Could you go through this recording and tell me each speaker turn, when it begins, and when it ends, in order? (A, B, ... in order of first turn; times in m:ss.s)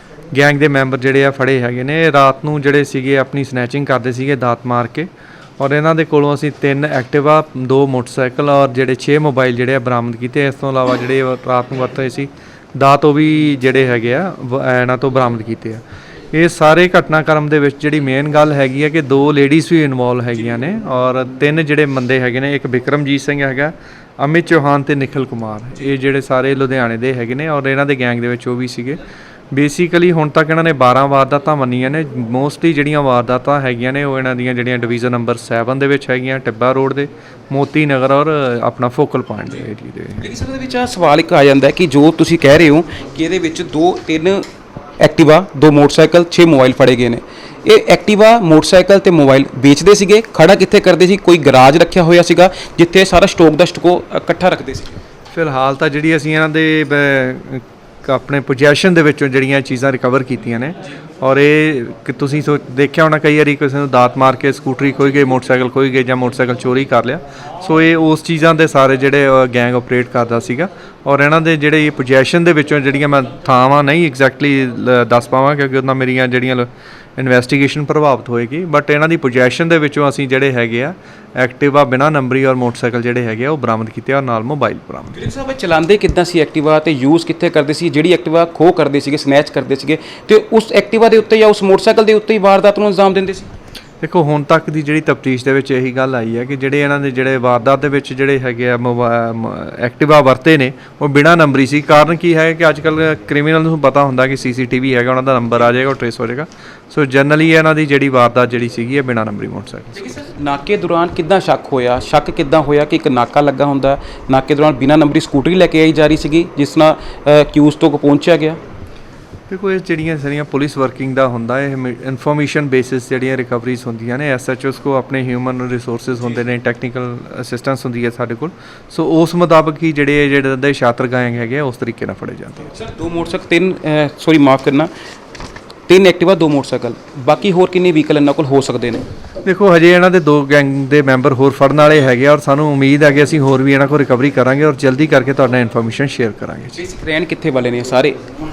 0:00.3-0:29.0 A
0:29.5-0:40.4 A
0:40.2-0:44.4 B
0:45.0-0:55.0 B
0:55.3-1:25.2 A
1:25.1-1:33.5 B
1:34.0-1:50.1 A
1:50.0-1:58.6 B
1:59.5-2:12.7 A
2:12.7-2:14.9 B
2:15.9-2:19.0 B
2:19.4-2:26.8 A
2:26.8-2:28.3 B